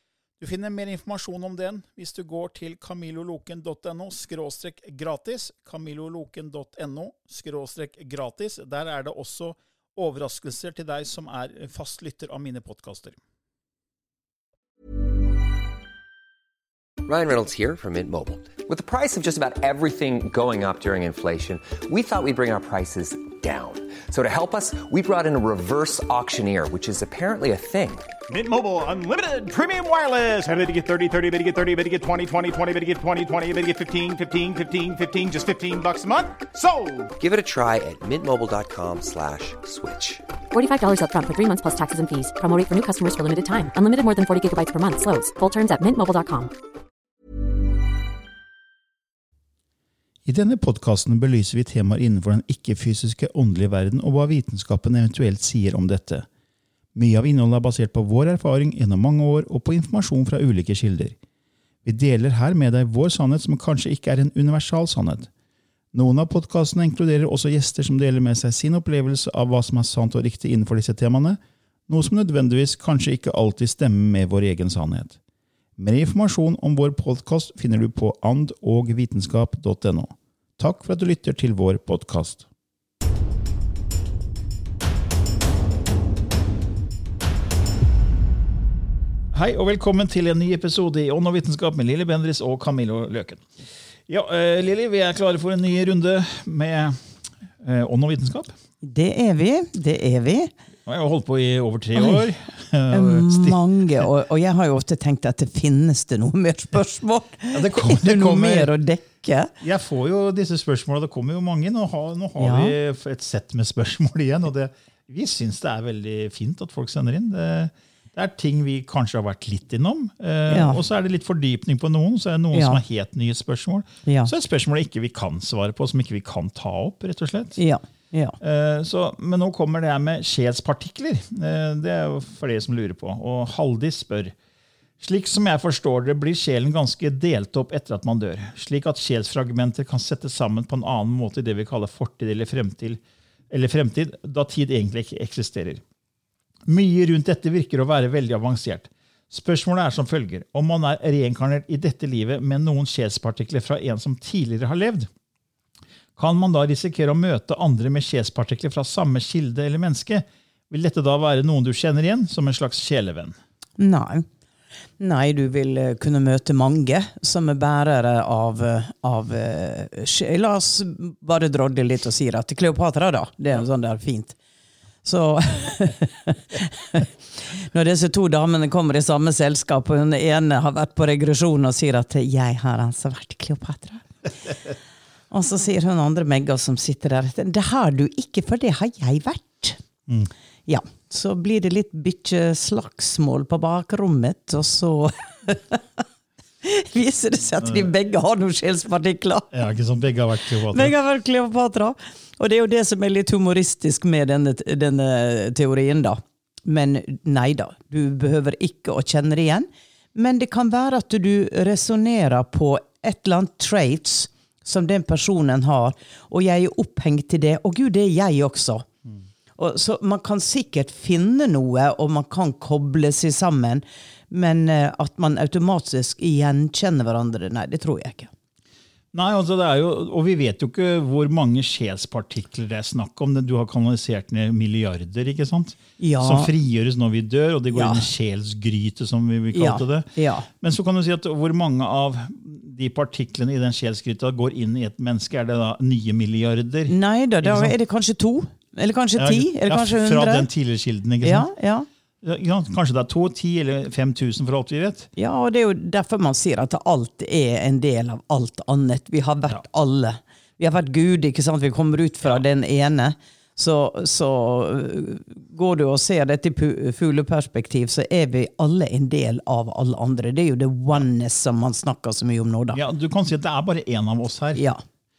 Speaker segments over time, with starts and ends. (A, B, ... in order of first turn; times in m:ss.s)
0:00.4-0:13.2 A
0:17.0-0:28.1 B
0:28.3-0:37.1 C
0:37.2-0:40.2 B
0:40.5-0:46.5 D
0:50.2-0:56.3 A
0:57.0-1:01.2 A
1:01.8-1:05.3 A
1:05.9-1:15.2 A
1:15.8-1:22.5 A
1:29.3-1:33.4 A
1:34.1-1:37.0 A
1:37.6-1:38.5 A
1:38.8-1:40.5 E
1:40.9-1:44.0 A
1:42.0-1:42.2 E
1:42.9-1:49.5 E
1:47.5-1:48.7 A
1:49.6-2:07.6 A
1:52.4-1:52.8 E
2:00.5-2:00.8 E
2:02.5-2:02.8 E
2:04.0-2:04.3 E
2:07.6-2:08.4 E
2:08.4-2:14.4 A
2:15.0-2:25.8 A
2:26.7-2:35.1 A
2:36.2-2:43.4 A
2:43.8-2:44.3 E
2:45.0-2:54.4 E
2:55.0-3:04.1 E
3:05.3-3:09.8 E
3:10.7-3:16.0 E
3:16.6-3:19.6 E
3:19.5-3:20.9 A
3:20.7-3:38.9 E
3:39.6-3:48.3 E
3:49.1-4:07.7 A
3:56.0-3:56.5 E
3:57.7-3:58.1 E
3:59.5-4:00.5 E
4:06.9-4:10.5 E
4:09.2-4:11.5 A
4:11.2-4:11.9 E
4:12.2-4:15.1 A
4:15.2-4:32.8 E
4:32.7-4:34.6 A
4:34.6-4:34.8 E